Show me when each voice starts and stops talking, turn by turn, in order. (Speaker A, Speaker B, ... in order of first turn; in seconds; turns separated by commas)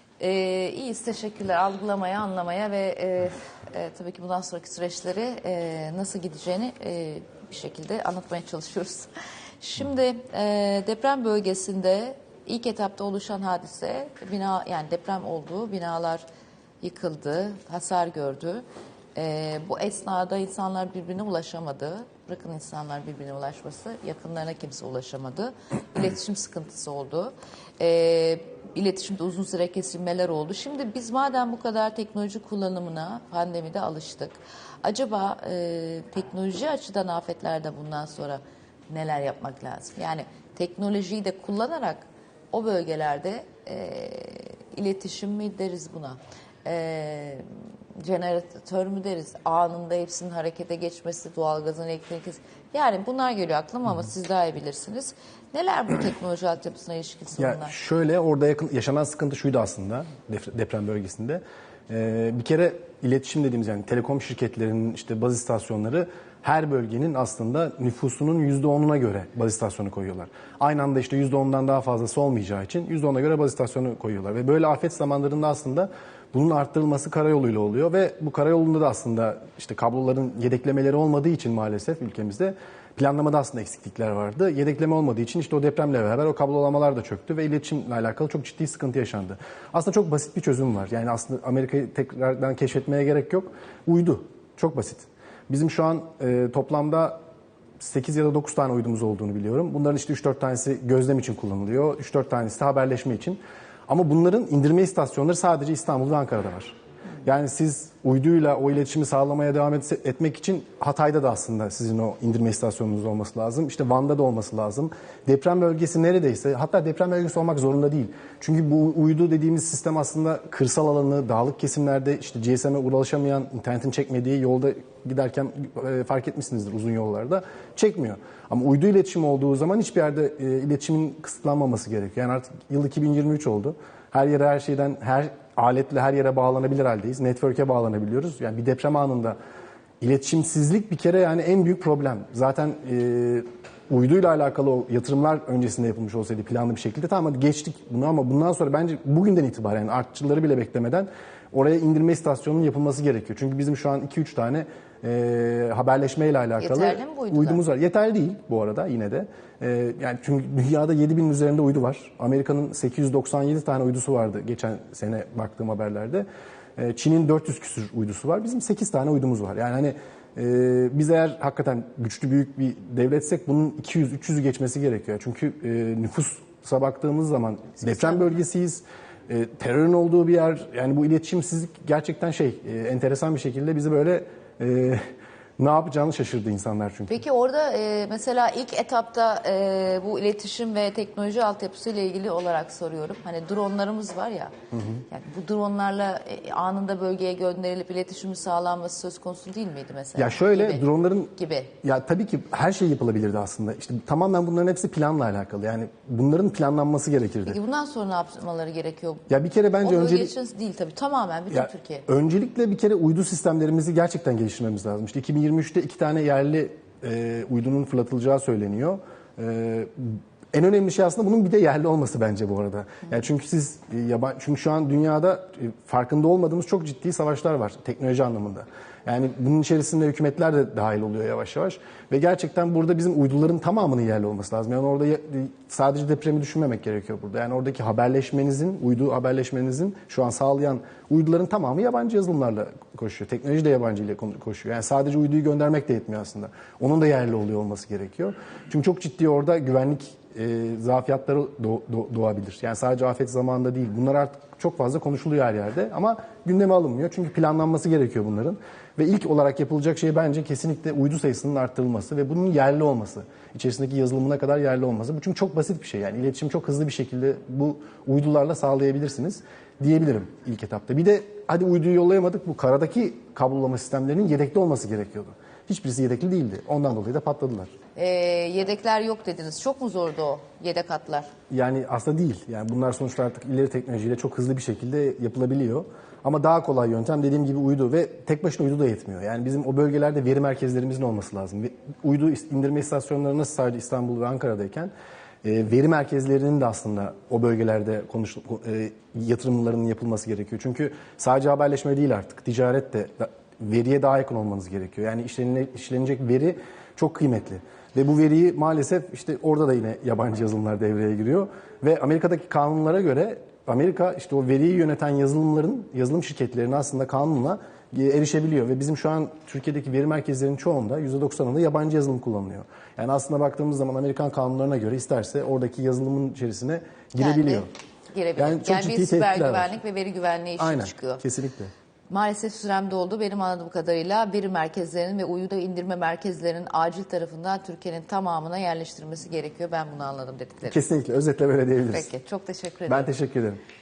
Speaker A: 0.2-16.2, Speaker A: 16.8-18.6, Speaker A: 19.1-57.7, Speaker B: 57.4-97.2, Speaker B: 97.8-106.7, Speaker B: 107.2-139.3, Speaker B: 140.0-166.2, Speaker A: 156.6-157.6, Speaker B: 166.8-185.0, Speaker B: 185.6-187.2, Speaker A: 187.1-194.5, Speaker B: 194.7-195.0, Speaker A: 195.1-201.7, Speaker B: 200.2-207.6, Speaker A: 207.4-209.2, Speaker B: 209.3-210.3, Speaker A: 209.8-212.1, Speaker B: 211.5-277.7, Speaker A: 277.9-281.3, Speaker B: 281.5-294.9, Speaker B: 295.4-327.7, Speaker A: 327.2-331.2, Speaker B: 328.4-329.7, Speaker B: 330.6-331.7, Speaker A: 332.1-340.8, Speaker B: 340.6-342.1, Speaker A: 341.9-343.1, Speaker B: 342.9-343.6